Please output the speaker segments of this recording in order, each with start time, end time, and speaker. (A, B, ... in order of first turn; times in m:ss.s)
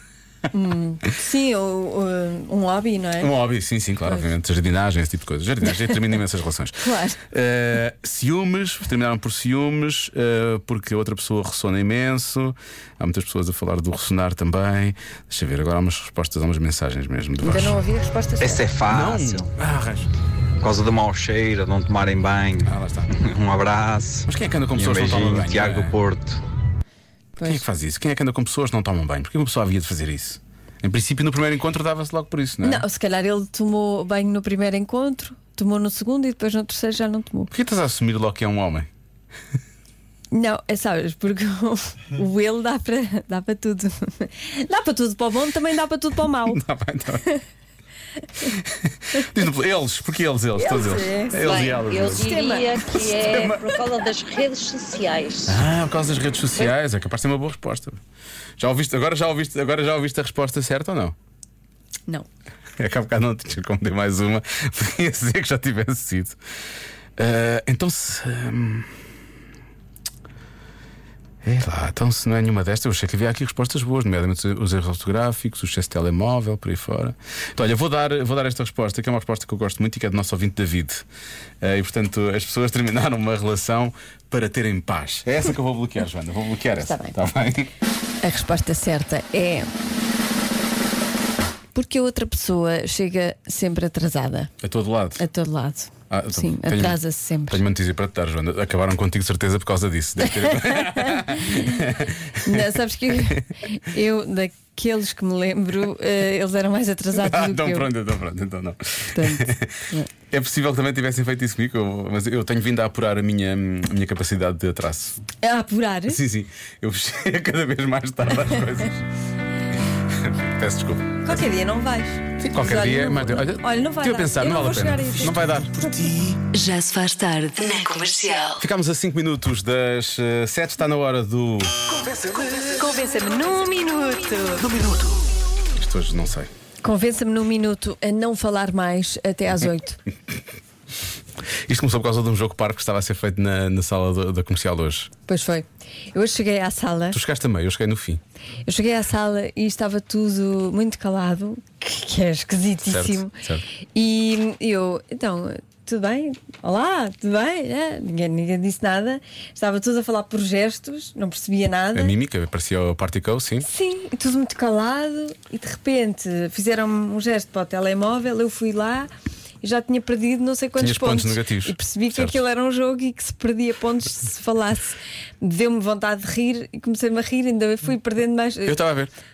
0:00.5-0:03.3 A
0:03.2-0:17.8 B
0:06.8-0:07.2 A
0:17.4-0:18.7 A
0:18.4-0:19.5 C
0:18.9-0:20.1 B
0:20.6-0:22.7 C
0:22.6-0:23.2 B
0:23.2-0:26.4 C
0:24.3-0:26.0 B
0:27.4-0:32.9 B
0:32.6-0:37.5 A
0:37.5-0:38.9 B
0:40.3-0:46.6 A
0:46.4-0:47.3 B
0:48.8-0:52.3 B
0:50.6-0:51.5 A
0:51.4-0:55.6 D
0:52.1-0:53.2 A
0:53.2-0:53.6 B
0:55.5-0:58.0 B
0:58.6-1:01.2 B
1:02.8-1:06.4 B
1:07.2-1:08.9 B
1:11.4-1:21.0 B
1:21.6-1:27.7 B
1:26.8-1:27.2 A
1:28.2-1:29.7 A
1:31.7-1:34.5 A
1:34.6-1:35.2 B
1:35.2-1:37.6 A
1:36.1-1:42.6 B
1:40.2-1:41.6 A
1:42.4-1:47.9 A
1:47.2-1:49.7 B
1:49.1-1:50.1 A
1:50.3-1:55.2 B
1:55.4-1:56.2 A
1:56.1-1:59.1 B
2:00.1-2:01.4 B
2:01.2-2:05.4 A
2:02.4-2:06.4 B
2:06.5-2:08.6 E
2:08.6-2:11.7 B
2:12.6-2:14.7 A
2:14.6-2:15.2 B
2:15.8-2:16.5 B
2:16.8-2:20.0 A
2:21.7-2:25.1 B
2:25.3-2:27.2 A
2:27.1-2:28.2 B
2:28.7-2:33.3 A
2:32.8-2:33.6 B
2:34.0-2:42.2 A
2:41.9-2:43.7 B
2:43.6-2:49.1 A
2:49.6-2:58.8 A
2:50.8-2:52.4 B
2:58.6-2:59.1 B